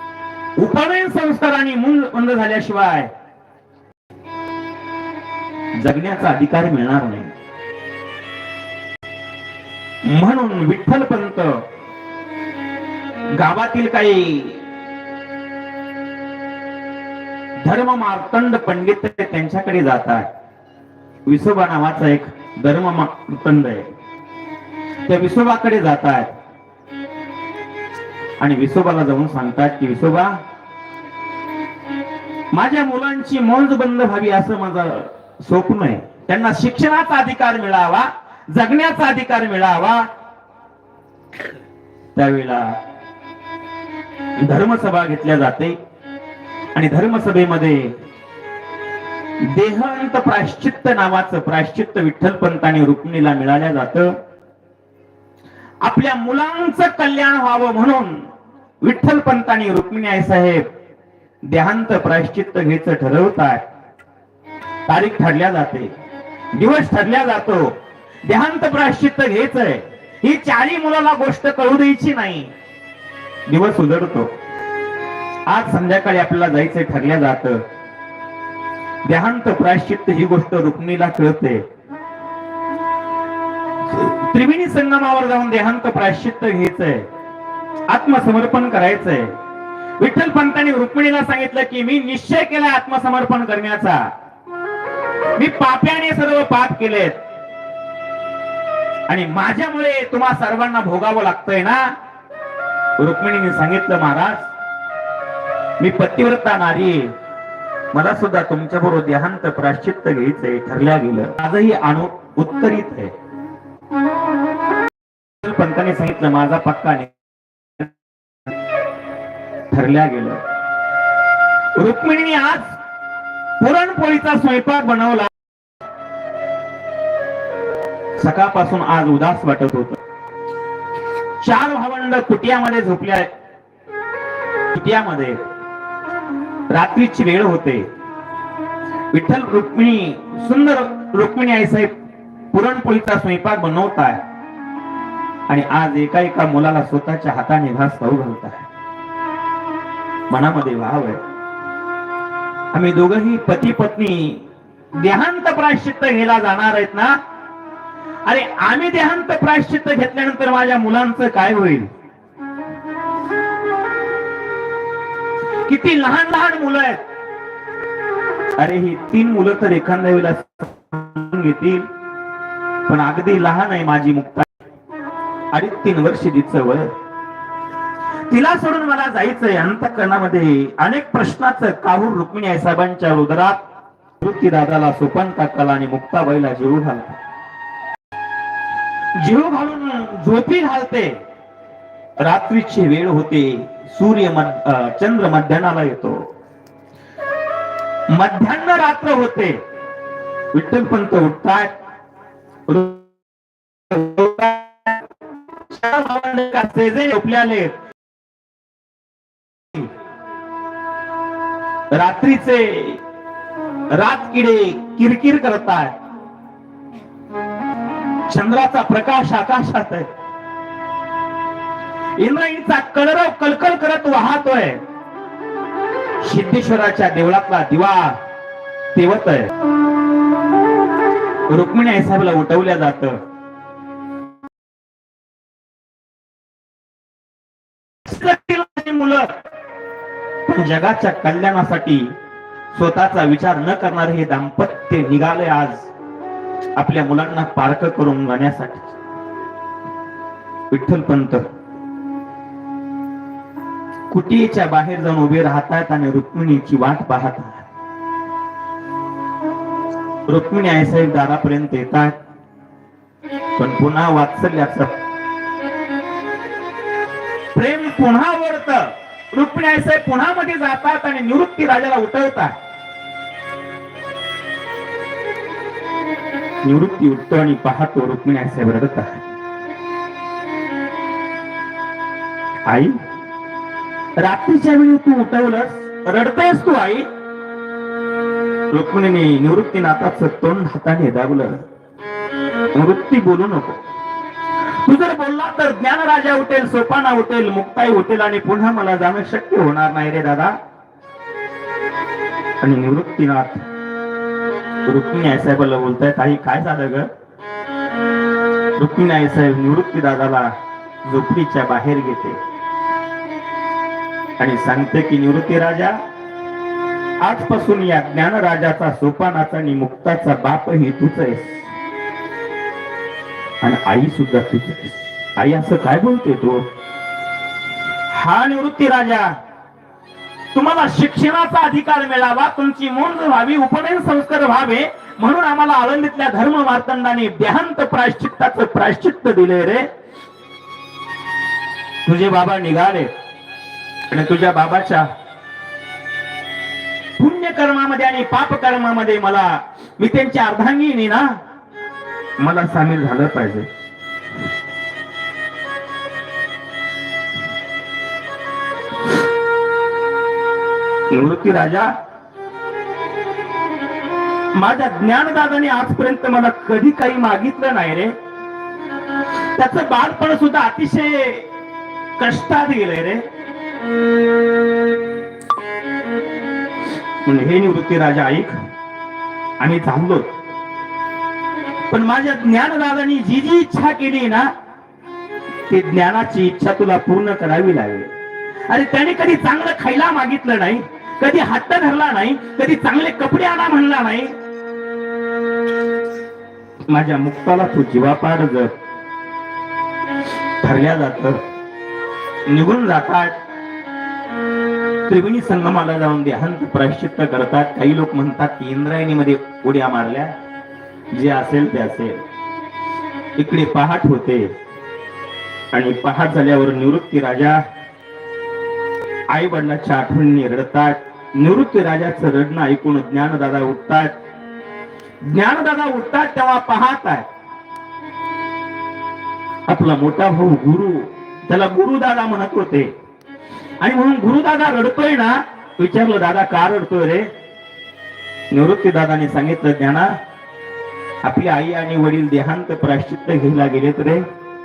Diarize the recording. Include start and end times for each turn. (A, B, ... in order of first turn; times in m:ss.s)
0:00.6-0:03.1 A
0:05.8-0:07.3 A
0:10.0-0:11.6 A
0:13.4-0:14.6 A
0:17.6-0:20.3 A
0:21.3-0:23.9 A
0:25.1-0:26.4 A
0:28.4-0:30.4 A
0:32.5-0:40.1 A
0:42.2-0:42.8 A
0:44.4-0:45.8 A
0:46.7-0:48.0 A
0:49.4-0:54.2 A
0:55.8-0:58.3 A
0:58.8-1:00.6 A
1:01.4-1:03.6 A
1:04.9-1:05.9 A
1:06.5-1:12.5 A
1:13.5-1:14.3 A
1:15.5-1:17.6 A
1:19.0-1:21.7 A
1:23.8-1:27.1 A
1:27.9-1:29.4 A
1:30.0-1:34.1 A
1:35.4-1:37.2 A
1:39.1-1:41.9 A
1:43.0-1:44.5 A
1:45.8-1:47.1 A
1:47.9-1:53.1 A
1:55.4-1:57.1 A
1:59.7-2:00.4 A
2:01.8-2:02.8 A
2:03.6-2:05.3 A
2:08.2-2:10.0 A
2:11.4-2:13.3 A
2:14.7-2:15.4 A
2:16.7-2:17.9 A
2:19.1-2:21.9 A
2:22.5-2:24.2 A
2:25.5-2:28.7 A
2:30.3-2:31.2 A
2:32.7-2:37.2 A
2:38.3-2:41.9 A
2:45.6-2:47.0 A
2:48.6-2:51.9 A
2:52.9-2:54.5 A
2:55.5-2:56.9 A
2:58.3-3:03.6 A
3:04.2-3:07.2 A
3:09.2-3:11.2 A
3:12.2-3:16.3 A
3:18.1-3:19.6 A
3:20.5-3:21.7 A
3:22.7-3:23.0 A
3:23.9-3:25.0 A
3:25.7-3:27.8 A
3:31.9-3:33.0 A
3:33.9-3:36.0 A
3:38.3-3:40.1 A
3:42.2-3:44.8 A
3:46.2-3:48.2 A
3:48.9-3:49.5 A
3:51.5-3:53.2 A
3:58.0-3:59.4 A
4:00.5-4:02.1 A
4:02.7-4:05.9 A
4:06.8-4:09.0 A
4:10.7-4:11.5 A
4:14.1-4:17.7 A
4:20.3-4:22.2 A
4:23.6-4:25.0 A
4:27.5-4:32.6 A
4:36.6-4:39.2 A
4:42.7-4:43.0 A
4:44.2-4:47.1 A
4:48.7-4:51.6 A
4:52.7-4:53.8 A
4:54.8-5:00.6 A
5:02.6-5:03.6 A
5:04.9-5:07.1 A
5:08.8-5:12.4 A
5:14.4-5:16.0 A
5:17.2-5:21.6 A
5:23.6-5:26.7 A
5:28.1-5:29.3 A
5:30.5-5:39.9 A
5:42.0-5:43.1 A
5:44.1-5:45.1 A
5:47.2-5:51.4 A
5:52.4-5:53.7 A
6:01.1-6:01.9 A
6:04.5-6:08.1 A
6:09.6-6:11.5 A
6:12.2-6:13.2 A
6:17.2-6:18.6 A
6:19.6-6:20.3 A
6:21.9-6:24.5 A
6:25.7-6:28.1 A
6:28.7-6:34.3 A
6:36.9-6:38.8 A
6:40.6-6:41.4 A
6:42.5-6:43.4 A
6:45.1-6:50.3 A
6:51.1-6:52.2 A
6:53.4-6:54.5 A
6:55.7-6:57.6 A
6:59.3-7:04.2 A
7:05.2-7:07.3 A
7:09.7-7:12.9 A
7:13.8-7:17.3 A
7:18.5-7:20.2 A
7:21.2-7:24.2 A